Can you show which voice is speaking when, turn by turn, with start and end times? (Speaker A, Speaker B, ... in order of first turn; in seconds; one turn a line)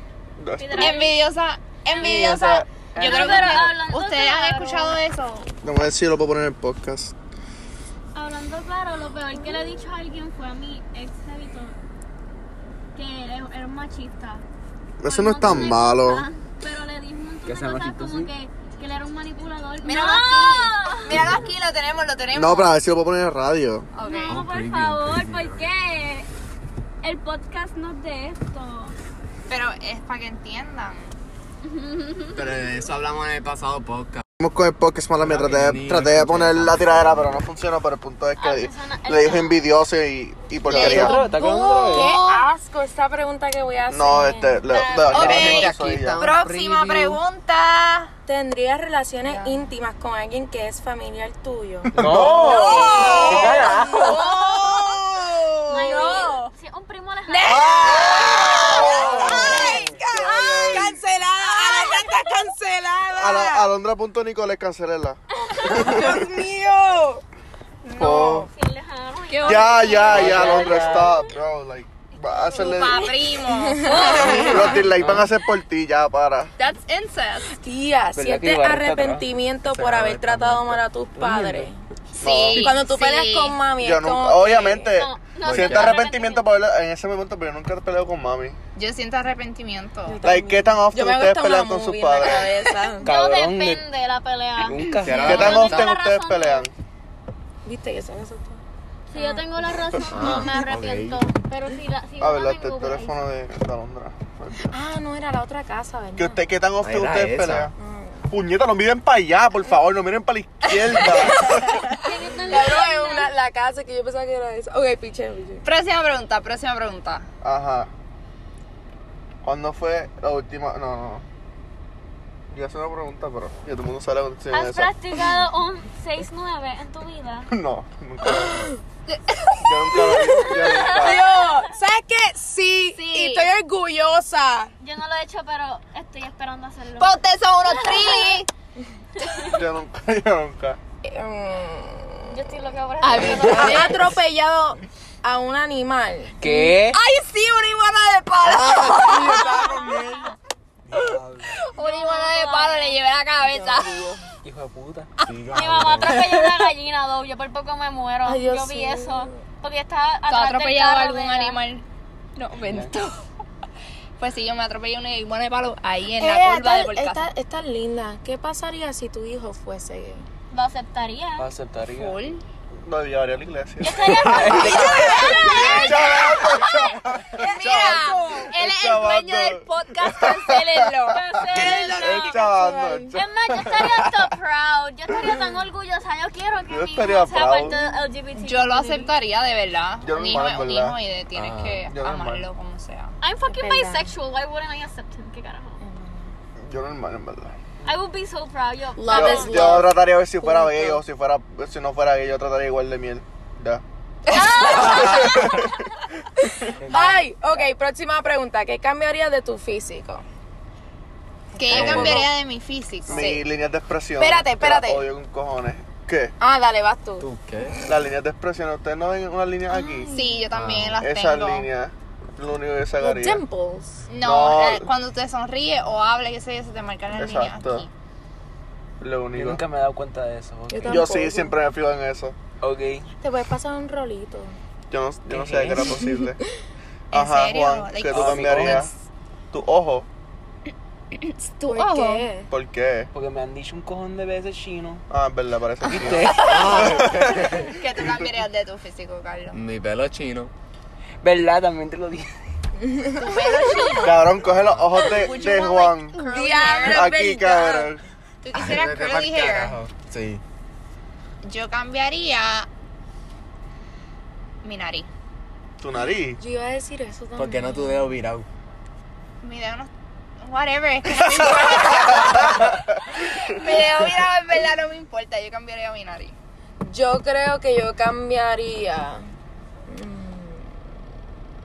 Speaker A: 0.4-1.0
Speaker B: 0.6-1.2
Speaker C: 0.8-5.5
Speaker B: 1.9-5.0
Speaker A: 2.0-2.7
Speaker D: 3.0-3.6
Speaker A: 5.6-7.1
Speaker B: 8.1-11.8
Speaker B: 12.9-14.4
Speaker A: 15.0-16.2
Speaker B: 15.0-21.4
Speaker E: 15.4-15.8
Speaker D: 17.4-18.3
Speaker C: 19.8-22.8
Speaker A: 22.3-23.9
Speaker C: 23.9-24.4
Speaker B: 24.0-26.3
Speaker E: 24.3-25.6
Speaker B: 27.0-28.9
Speaker C: 29.5-31.1
Speaker B: 31.6-32.4
Speaker E: 32.3-34.2
Speaker A: 34.4-41.2
Speaker E: 35.2-37.5
Speaker B: 38.4-39.6
Speaker F: 40.6-44.6
Speaker D: 40.7-42.1
Speaker E: 41.3-42.0
Speaker C: 42.0-42.5
Speaker A: 43.9-46.3
Speaker B: 44.1-45.3
Speaker C: 45.1-48.1
Speaker E: 45.1-47.2
Speaker F: 48.3-55.8
Speaker C: 49.2-49.6
Speaker A: 51.9-53.2
Speaker D: 52.0-54.2
Speaker C: 52.3-56.5
Speaker E: 52.6-53.8
Speaker B: 52.9-53.2
Speaker B: 55.7-58.0
Speaker F: 57.3-63.7
Speaker A: 57.4-61.0
Speaker C: 58.4-58.8
Speaker E: 59.2-59.7
Speaker B: 61.7-62.1
Speaker A: 63.1-65.2
Speaker B: 65.4-66.0
Speaker F: 65.7-67.2
Speaker A: 65.7-66.0
Speaker C: 67.8-68.5
Speaker A: 68.0-68.5
Speaker B: 68.5-71.1
Speaker C: 69.3-70.8
Speaker A: 69.5-73.0
Speaker D: 70.0-71.3
Speaker C: 72.5-74.8
Speaker B: 72.9-73.2
Speaker F: 73.6-74.8
Speaker B: 73.8-74.8
Speaker A: 74.0-76.5
Speaker D: 74.9-75.3
Speaker C: 76.6-77.5
Speaker F: 77.5-81.8
Speaker D: 78.1-79.3
Speaker E: 79.8-80.7
Speaker D: 79.9-81.7
Speaker C: 82.1-83.6
Speaker A: 82.2-82.7
Speaker F: 82.5-85.0
Speaker A: 83.8-88.6
Speaker B: 84.8-86.6
Speaker E: 85.4-86.0
Speaker C: 88.8-90.2
Speaker F: 90.1-93.2
Speaker A: 90.2-92.8
Speaker B: 93.0-96.7
Speaker D: 93.0-93.9
Speaker D: 94.6-95.5
Speaker E: 95.0-96.0
Speaker A: 95.2-96.7
Speaker F: 97.7-98.6
Speaker B: 99.1-103.2
Speaker F: 99.2-99.5
Speaker E: 100.1-101.2
Speaker A: 102.2-104.8
Speaker F: 104.7-106.4
Speaker A: 106.2-107.7
Speaker E: 106.8-107.7
Speaker F: 107.8-108.3
Speaker A: 108.3-111.8
Speaker F: 111.0-115.7
Speaker B: 112.0-113.3
Speaker C: 115.7-117.3
Speaker A: 117.4-117.9
Speaker A: 119.4-121.2
Speaker A: 122.5-124.9
Speaker B: 124.5-127.5
Speaker A: 127.5-128.7
Speaker C: 129.1-129.7
Speaker A: 129.6-131.3
Speaker B: 130.6-131.6
Speaker F: 130.9-134.7
Speaker C: 132.9-133.5
Speaker B: 134.8-138.4
Speaker C: 137.0-138.5
Speaker B: 139.2-139.6
Speaker A: 139.5-140.8
Speaker F: 141.1-142.5
Speaker B: 142.3-143.9
Speaker C: 143.0-143.9
Speaker F: 143.3-146.8
Speaker D: 146.4-147.0
Speaker C: 146.9-149.4
Speaker E: 148.4-150.3
Speaker F: 148.9-150.1
Speaker D: 150.8-151.6
Speaker C: 150.9-154.2
Speaker B: 151.8-153.0
Speaker F: 153.4-154.3
Speaker D: 154.4-155.1
Speaker E: 155.2-156.3
Speaker B: 155.5-161.6
Speaker D: 156.1-156.4
Speaker F: 158.2-159.4
Speaker C: 160.3-161.8
Speaker C: 162.4-163.2
Speaker D: 162.6-162.9
Speaker C: 164.2-167.3
Speaker F: 166.2-170.3
Speaker B: 170.5-171.5
Speaker D: 171.4-172.2
Speaker C: 171.9-172.4
Speaker A: 172.8-180.8
Speaker B: 173.8-177.0
Speaker E: 174.1-174.5
Speaker D: 174.3-175.3
Speaker C: 174.6-175.9
Speaker E: 175.6-176.1
Speaker C: 177.3-181.2
Speaker F: 177.7-178.5
Speaker B: 181.1-182.4
Speaker F: 181.5-183.2
Speaker A: 181.5-184.1
Speaker B: 183.2-189.1
Speaker A: 186.7-187.8
Speaker C: 188.3-193.2
Speaker A: 190.0-191.0
Speaker E: 191.3-191.9
Speaker A: 191.9-192.5
Speaker B: 193.2-195.8
Speaker F: 193.5-194.2
Speaker F: 195.8-196.3
Speaker A: 196.7-197.6
Speaker B: 197.8-199.9
Speaker F: 199.0-201.0
Speaker A: 199.1-203.8
Speaker B: 204.3-205.5
Speaker F: 204.4-205.2
Speaker A: 204.6-205.7
Speaker F: 206.4-210.2
Speaker D: 206.8-207.3
Speaker F: 211.5-212.3
Speaker C: 211.6-213.4
Speaker E: 211.7-212.3
Speaker A: 213.1-216.4
Speaker F: 214.2-215.1
Speaker F: 216.4-217.9
Speaker E: 217.2-217.8
Speaker A: 217.9-220.1
Speaker F: 219.7-220.4
Speaker C: 220.1-221.7
Speaker E: 220.5-221.0
Speaker A: 220.9-223.4
Speaker F: 223.0-224.1
Speaker C: 224.1-227.9
Speaker A: 224.2-224.9
Speaker A: 227.1-227.9
Speaker A: 229.0-229.6
Speaker D: 229.3-231.1
Speaker F: 230.7-231.6
Speaker A: 230.9-232.4
Speaker D: 232.6-233.1
Speaker F: 233.2-234.6
Speaker A: 234.9-236.4
Speaker D: 235.3-235.9
Speaker F: 235.9-236.3
Speaker A: 237.1-238.9
Speaker C: 237.1-238.9
Speaker D: 238.1-238.9
Speaker A: 239.5-240.1
Speaker C: 241.2-242.3
Speaker F: 241.7-242.5
Speaker A: 242.5-243.1
Speaker D: 243.1-245.0
Speaker A: 245.1-247.7
Speaker D: 245.8-247.1
Speaker E: 246.4-247.7
Speaker C: 247.4-249.6
Speaker E: 249.5-250.5
Speaker D: 251.2-252.3
Speaker F: 252.9-253.2
Speaker C: 253.2-254.2
Speaker A: 254.0-256.2
Speaker E: 254.3-255.1
Speaker C: 255.1-257.1
Speaker F: 256.2-257.9
Speaker A: 256.8-258.0
Speaker C: 258.4-259.8
Speaker E: 258.5-260.4
Speaker C: 261.4-262.7
Speaker C: 264.6-265.1
Speaker A: 265.8-266.4
Speaker F: 266.3-268.1
Speaker E: 267.4-268.5
Speaker C: 269.4-269.9
Speaker C: 270.4-276.4
Speaker A: 271.2-272.9
Speaker F: 276.9-279.2
Speaker F: 279.9-280.7